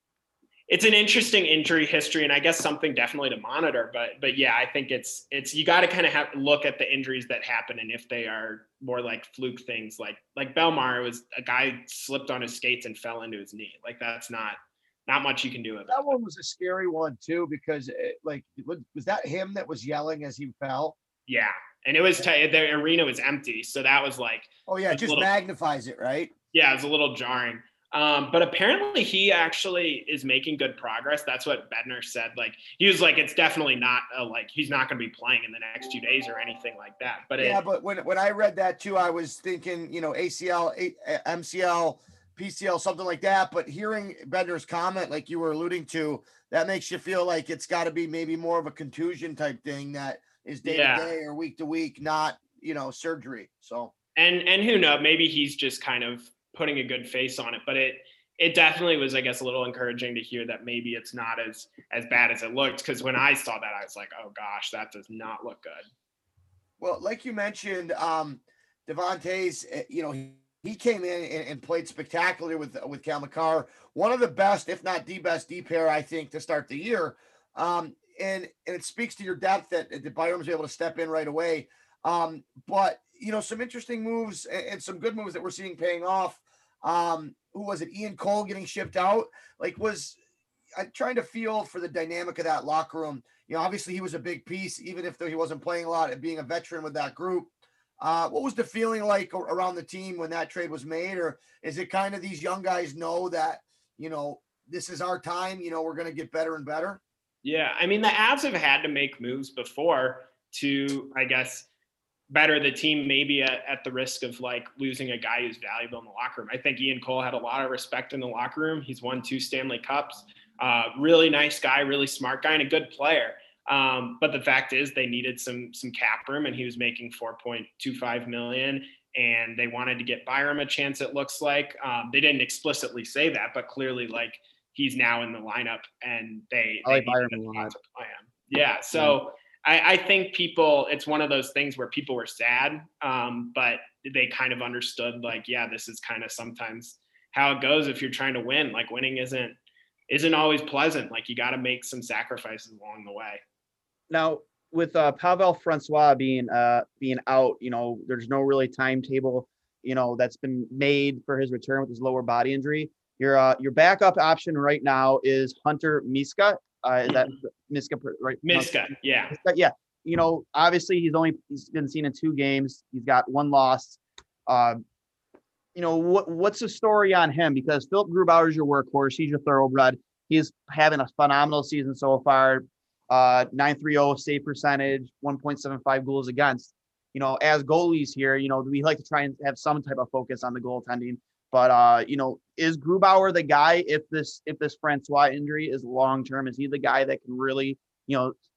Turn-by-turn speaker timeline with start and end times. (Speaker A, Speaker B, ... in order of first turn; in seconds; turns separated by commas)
Speaker A: 0.7-16.1, Speaker B: 15.9-21.0, Speaker A: 21.3-25.3, Speaker B: 24.7-26.3, Speaker A: 26.5-37.6, Speaker B: 37.4-53.9, Speaker A: 50.6-51.1, Speaker A: 54.2-65.9, Speaker B: 66.8-90.2, Speaker B: 90.8-97.5, Speaker B: 98.0-107.0, Speaker A: 107.4-111.7, Speaker A: 112.3-149.6, Speaker C: 136.8-137.7, Speaker C: 138.9-139.2, Speaker A: 150.1-153.4, Speaker C: 154.1-174.8, Speaker A: 168.4-169.4, Speaker C: 175.8-198.3